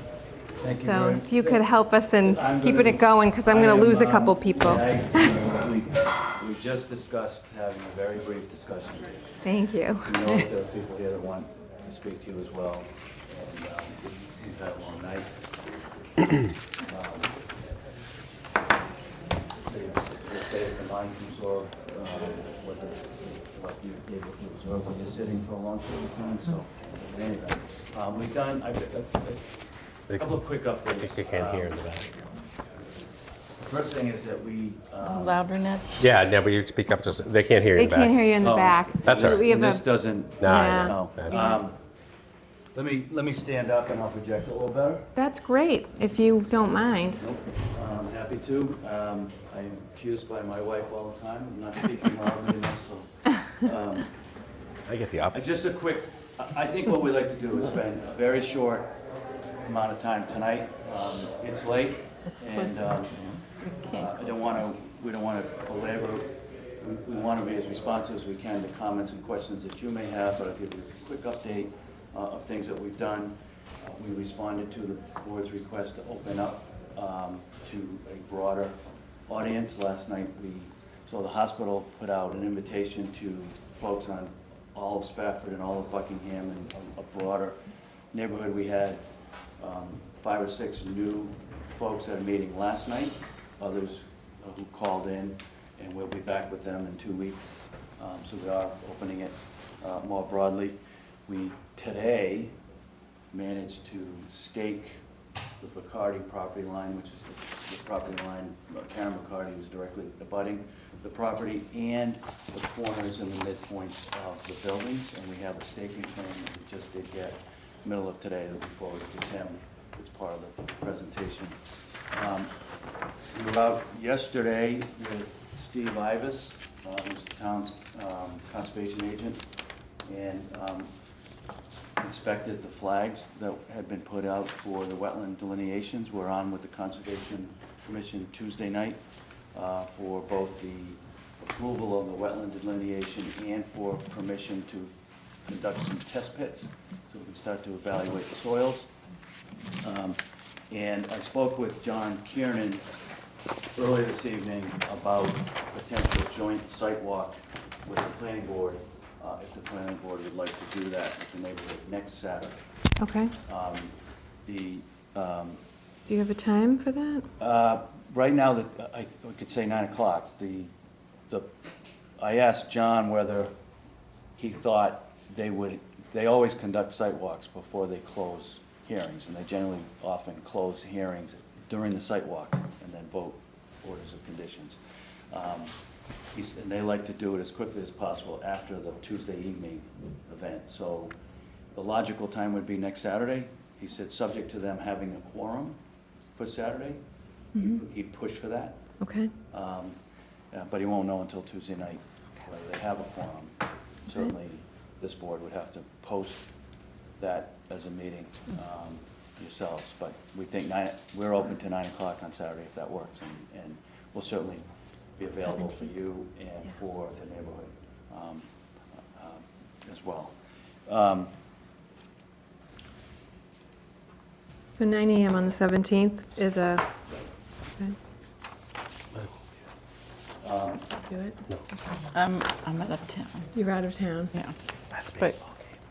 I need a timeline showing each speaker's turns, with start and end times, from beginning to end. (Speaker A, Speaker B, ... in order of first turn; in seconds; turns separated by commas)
Speaker A: 0.6-9.2, Speaker B: 0.7-5.0, Speaker B: 9.4-10.2, Speaker A: 10.0-15.3, Speaker A: 16.9-17.4, Speaker A: 19.6-29.5, Speaker A: 30.1-31.8, Speaker C: 31.0-32.1, Speaker A: 33.6-35.4, Speaker D: 35.0-36.0, Speaker C: 36.0-38.3, Speaker B: 37.8-41.6, Speaker A: 38.4-41.8, Speaker C: 39.1-39.6, Speaker C: 40.4-41.5, Speaker A: 42.7-45.1, Speaker B: 45.1-47.2, Speaker A: 47.2-54.1, Speaker C: 54.9-55.5, Speaker A: 55.3-58.9, Speaker A: 59.6-63.4, Speaker D: 63.6-64.2, Speaker A: 63.9-87.6, Speaker A: 88.1-89.0, Speaker A: 89.6-102.5, Speaker A: 103.3-105.0, Speaker A: 105.6-121.6, Speaker A: 122.1-122.5, Speaker A: 123.3-129.4, Speaker A: 130.1-130.9, Speaker A: 132.0-139.0, Speaker A: 139.5-144.9, Speaker A: 145.5-148.9, Speaker A: 149.8-150.2, Speaker A: 150.7-152.9, Speaker A: 153.8-162.6, Speaker B: 163.0-163.3, Speaker A: 163.5-163.9, Speaker A: 164.4-165.6, Speaker B: 166.1-167.3, Speaker A: 167.4-170.7, Speaker A: 172.2-173.5, Speaker A: 174.4-184.8, Speaker A: 185.3-185.7, Speaker A: 186.3-191.1, Speaker A: 191.7-195.8, Speaker A: 196.4-197.0, Speaker B: 197.6-197.8, Speaker A: 197.6-198.8, Speaker B: 199.0-199.3, Speaker A: 199.5-200.0, Speaker A: 200.5-203.6, Speaker A: 204.1-206.5, Speaker A: 207.2-214.7, Speaker A: 215.2-218.5, Speaker A: 219.1-220.4, Speaker A: 220.9-221.3, Speaker B: 224.8-226.9, Speaker A: 230.4-230.9, Speaker B: 231.0-231.4, Speaker D: 232.1-233.5, Speaker B: 233.5-234.3, Speaker C: 234.9-235.6